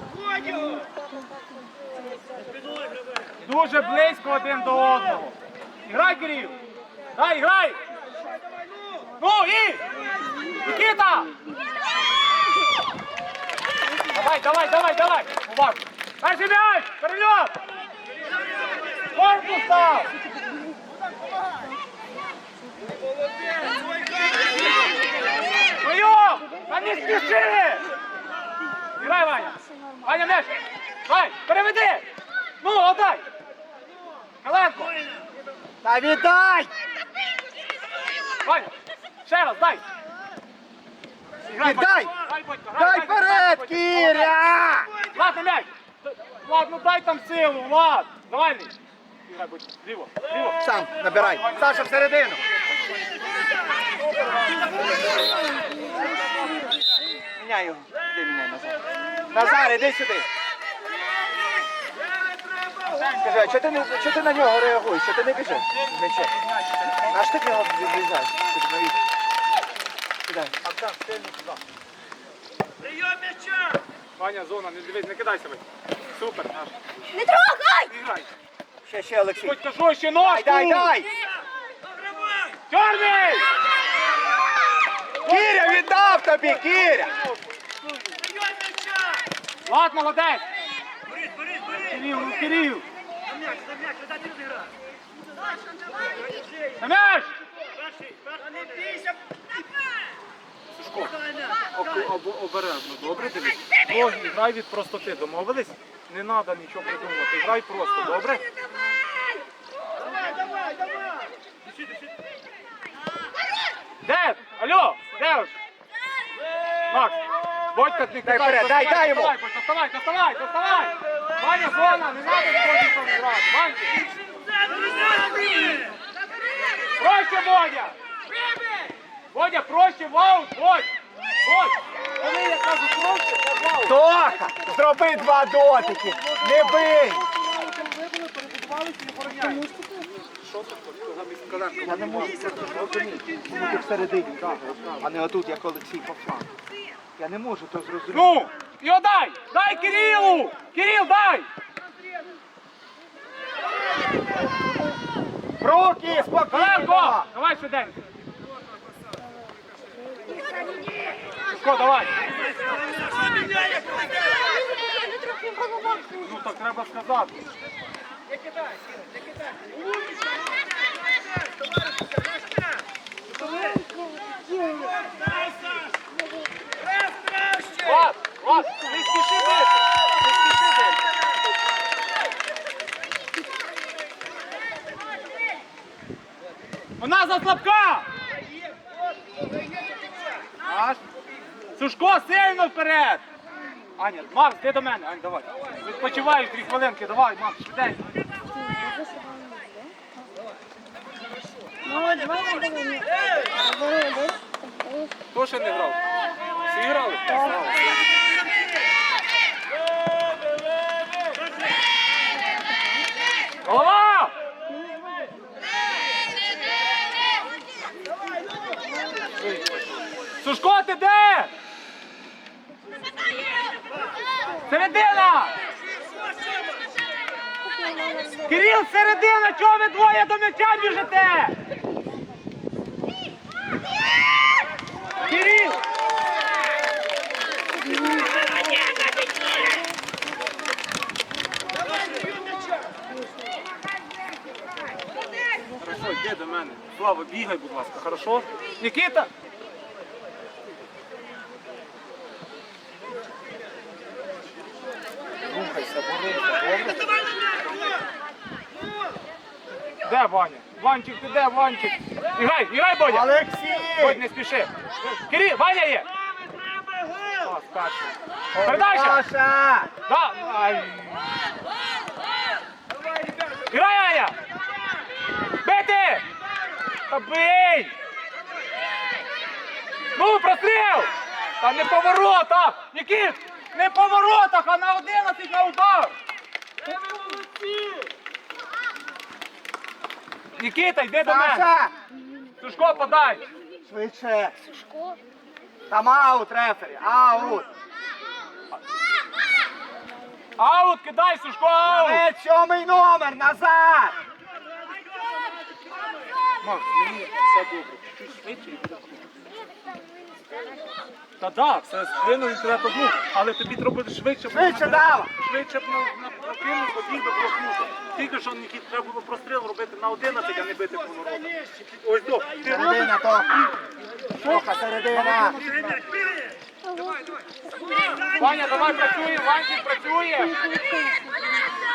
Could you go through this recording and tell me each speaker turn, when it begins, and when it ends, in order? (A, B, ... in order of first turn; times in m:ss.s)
0:03.4-0:06.6 A
0:07.1-0:07.8 A
0:09.2-0:09.8 A
0:10.5-0:11.3 A
0:14.1-0:17.6 A
0:19.1-0:20.1 A
0:25.8-0:27.9 A
0:29.0-0:32.0 A
0:32.6-0:33.2 A
0:34.4-0:34.9 A
0:35.8-0:36.7 B
0:38.4-0:38.7 A
0:39.2-0:39.8 A
0:41.4-0:44.3 A
0:41.6-0:42.1 B
0:42.8-0:44.9 B
0:45.1-0:48.7 A
0:49.2-0:52.6 A
0:50.6-0:52.4 B
0:53.9-0:54.9 A
0:57.4-1:00.3 B
1:02.8-1:03.5 A
1:03.0-1:06.3 B
1:05.7-1:07.2 A
1:07.1-1:09.0 B
1:10.2-1:10.5 B
1:10.6-1:11.6 A
1:14.2-1:16.8 A
1:17.1-1:17.9 C
1:17.8-1:18.3 A
1:18.8-1:19.6 B
1:19.4-1:21.0 A
1:20.2-1:21.1 B
1:22.7-1:23.5 A
1:25.2-1:27.1 B
1:25.3-1:25.8 A
1:26.7-1:27.3 A
1:29.6-1:30.4 A
1:31.7-1:32.8 A
1:36.8-1:37.3 A
1:40.7-1:41.1 A
1:41.7-1:48.4 A
1:54.0-1:55.5 A
1:56.9-2:04.0 A
1:58.2-1:59.3 B
2:07.0-2:08.0 A
2:09.3-2:10.9 A
2:11.4-2:14.0 A
2:13.8-2:17.2 B
2:16.2-2:19.7 A
2:20.4-2:23.0 A
2:21.8-2:26.5 B
2:24.3-2:25.0 A
2:27.2-2:28.4 B
2:28.1-2:31.5 A
2:35.6-2:37.3 B
2:36.1-2:38.0 A
2:41.5-2:42.1 A
2:44.6-2:46.1 C
2:46.2-2:47.4 A
2:53.6-2:55.0 C
2:57.8-3:00.9 A
3:07.0-3:08.1 A
3:10.6-3:11.0 A
3:11.8-3:13.2 A
3:14.0-3:18.0 A
3:18.6-3:19.9 C
3:21.8-3:25.0 C
3:25.3-3:26.0 A
3:26.6-3:27.8 A
3:33.6-3:34.3 A
3:39.4-3:39.7 A
3:40.4-3:41.5 A
3:44.6-3:45.5 A
3:47.7-3:48.4 C
3:48.4-3:51.5 A
3:55.2-3:55.8 A
4:05.8-4:09.3 A
4:15.4-4:17.1 A
4:20.0-4:23.3 A
4:23.0-4:24.2 B
4:24.0-4:26.1 A
4:27.4-4:29.2 A
4:28.5-4:29.9 B
4:30.0-4:31.5 A
4:33.6-4:34.4 A
4:35.6-4:36.2 A
4:37.1-4:37.9 A
4:40.1-4:46.1 A
4:50.6-4:51.7 A
4:51.2-4:51.9 B
4:52.6-4:53.4 A
4:53.8-4:54.6 B
4:54.8-4:55.2 C
4:55.9-4:57.7 B
5:00.6-5:02.2 A
5:01.8-5:04.1 B
5:06.6-5:09.2 A
5:11.4-5:22.8 A
5:14.5-5:15.3 B
5:22.6-5:23.5 B
5:24.4-5:25.6 B
5:24.4-5:26.0 A
5:28.3-5:30.6 A
5:30.6-5:31.3 C